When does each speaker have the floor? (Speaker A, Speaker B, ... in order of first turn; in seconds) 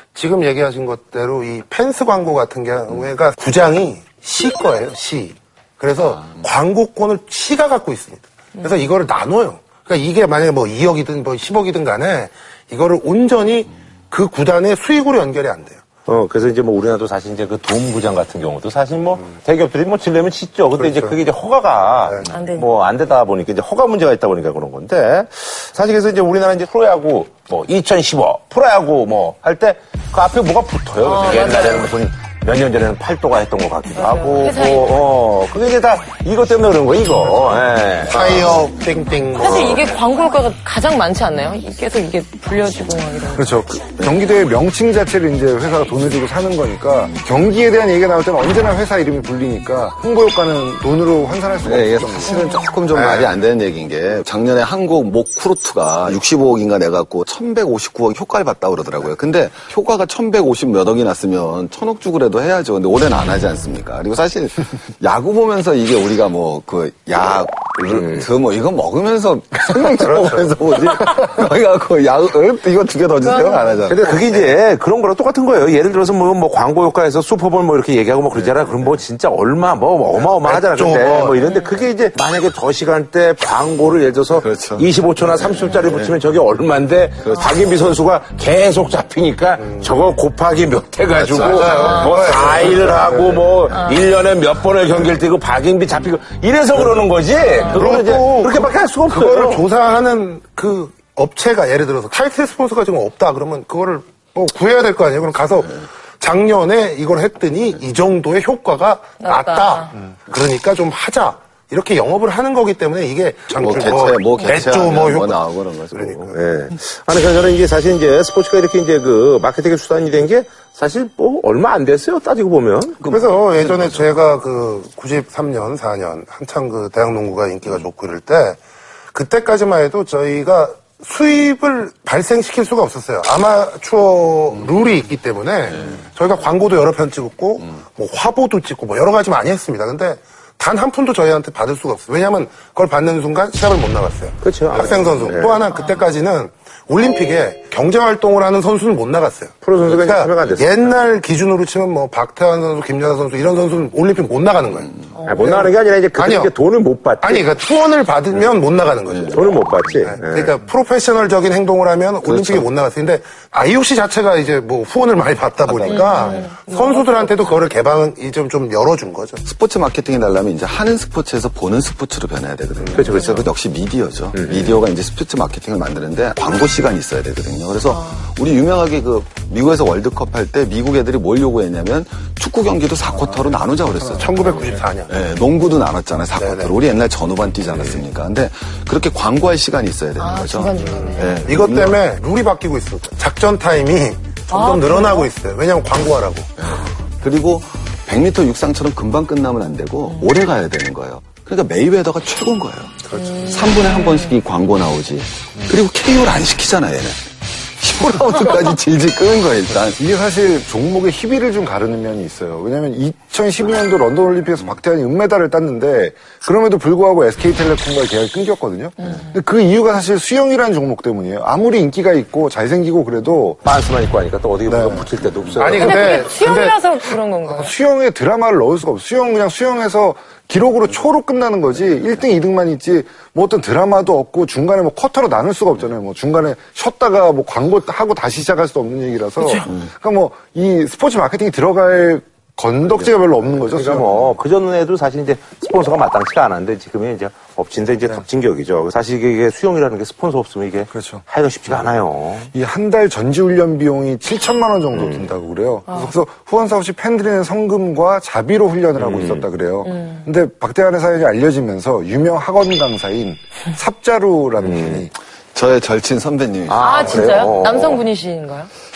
Speaker A: 0.1-15.8, 20.8-21.2, 38.0-40.0, 52.9-53.2, 74.1-74.5, 80.4-81.4, 91.5-93.4, 97.6-116.3, 123.0-128.6, 129.1-156.5, 157.2-159.4, 160.0-169.4, 184.2-185.2, 186.4-186.7, 191.4-196.5, 225.6-226.8
Speaker B: 8.6-8.9, 22.2-22.7, 31.0-31.9, 34.0-35.0, 39.4-43.6, 52.3-52.7, 73.2-73.8, 91.7-92.2, 93.7-94.1, 97.5-98.0, 109.2-109.9, 145.7-146.0, 155.1-155.7, 165.8-167.5, 177.9-178.2, 190.2-191.4, 194.5-195.3, 203.1-204.3, 219.0-219.3, 225.8-227.7, 255.9-256.1, 259.9-260.2, 266.8-268.7
Speaker C: 16.1-38.5, 67.8-68.2, 73.9-99.7, 116.3-123.0, 144.4-145.6, 149.6-150.9, 155.2-157.5, 159.3-160.5, 165.7-166.0, 172.9-173.5, 174.4-174.7, 223.6-226.2, 242.9-252.5, 254.9-255.3, 259.0-259.5, 264.6-265.1, 266.7-268.0
Speaker D: 37.5-38.5, 43.3-52.4, 183.1-184.9, 209.9-223.6, 224.7-225.1, 227.5-244.2, 250.9-251.2, 252.5-265.1
Speaker E: 44.0-44.2, 51.6-74.1, 78.3-79.0, 84.3-86.2, 87.2-87.9, 91.1-92.2, 113.5-116.3, 123.0-124.2, 135.7-136.1, 159.1-160.2, 162.2-162.7, 165.7-166.4, 169.4-192.0, 196.6-210.0, 265.5-267.7